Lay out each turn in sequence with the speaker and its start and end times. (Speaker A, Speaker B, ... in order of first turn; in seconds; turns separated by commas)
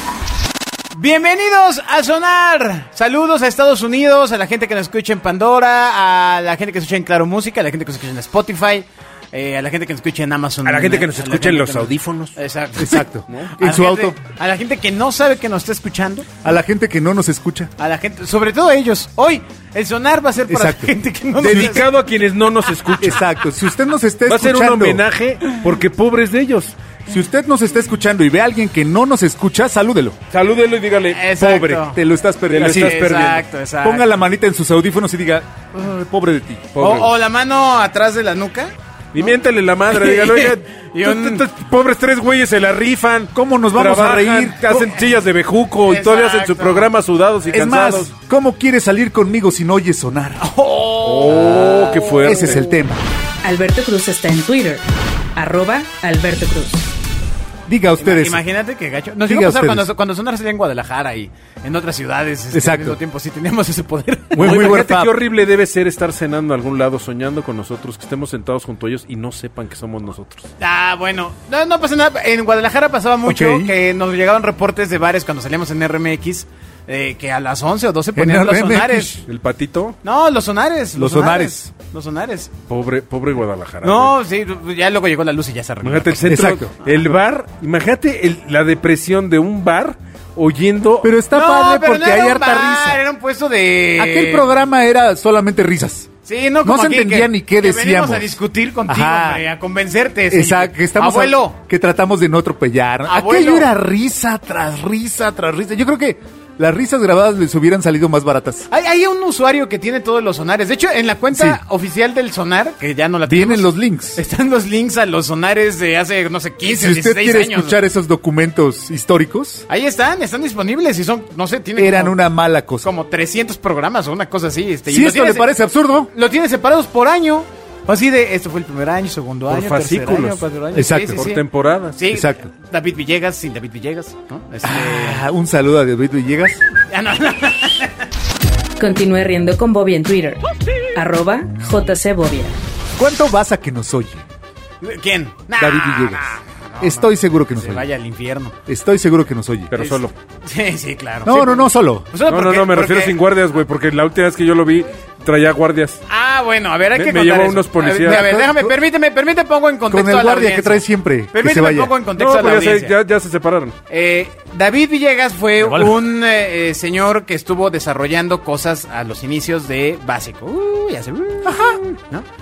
Speaker A: 0.9-13.1, Speaker B: 10.6-12.4, Speaker C: 12.8-14.2, Speaker B: 13.3-13.6, Speaker A: 13.6-16.3, Speaker C: 16.4-17.7, Speaker A: 17.8-21.9, Speaker C: 20.5-21.9, Speaker B: 21.4-23.2, Speaker C: 23.0-25.0, Speaker B: 24.3-26.8, Speaker C: 27.1-30.2, Speaker B: 30.3-31.9, Speaker A: 31.1-32.0, Speaker C: 31.9-36.7, Speaker B: 32.5-33.4, Speaker A: 32.6-34.1, Speaker B: 36.8-37.1, Speaker A: 36.8-38.7, Speaker B: 39.1-48.1, Speaker A: 39.9-41.5, Speaker C: 43.3-44.7, Speaker A: 44.7-45.0, Speaker A: 45.9-46.9, Speaker C: 47.5-50.4, Speaker A: 50.4-52.6, Speaker B: 51.0-52.7, Speaker C: 52.2-53.0, Speaker D: 53.4-54.8, Speaker D: 55.4-56.9, Speaker C: 57.7-58.4, Speaker A: 58.0-64.8, Speaker C: 59.2-59.9, Speaker C: 62.5-63.0, Speaker B: 64.3-70.5, Speaker C: 64.4-65.2, Speaker A: 70.6-79.2, Speaker C: 73.2-73.7, Speaker C: 78.2-79.2, Speaker B: 79.2-80.0, Speaker A: 80.0-82.5, Speaker C: 81.0-81.7, Speaker B: 82.7-84.2, Speaker A: 83.8-87.0, Speaker B: 85.8-91.1, Speaker C: 86.3-86.7, Speaker C: 91.0-93.0, Speaker A: 91.3-94.5, Speaker C: 94.0-96.1, Speaker A: 96.3-101.6, Speaker C: 96.6-98.3, Speaker C: 98.9-99.4, Speaker C: 100.3-108.7, Speaker A: 103.1-103.7, Speaker A: 108.7-117.8, Speaker C: 111.3-111.6, Speaker C: 113.3-114.2, Speaker C: 116.6-119.7, Speaker A: 119.7-122.2, Speaker C: 121.8-122.9, Speaker A: 122.8-125.5, Speaker C: 124.9-126.1, Speaker A: 126.1-131.4, Speaker B: 129.5-130.4, Speaker C: 130.7-131.3, Speaker B: 131.1-132.0, Speaker A: 131.9-135.2, Speaker C: 132.1-132.5, Speaker C: 134.6-136.6, Speaker A: 136.9-137.9, Speaker D: 138.8-140.4, Speaker D: 140.9-142.6, Speaker C: 143.0-144.2, Speaker A: 144.8-148.6, Speaker C: 145.6-147.9, Speaker C: 148.7-149.7, Speaker B: 149.7-150.1, Speaker A: 149.8-153.2, Speaker C: 151.2-152.1, Speaker B: 152.2-156.0, Speaker A: 156.1-162.9, Speaker B: 156.9-158.3, Speaker C: 158.0-158.7, Speaker C: 159.9-161.9, Speaker B: 162.2-163.8, Speaker A: 163.9-172.3, Speaker C: 165.6-166.1, Speaker C: 171.4-171.8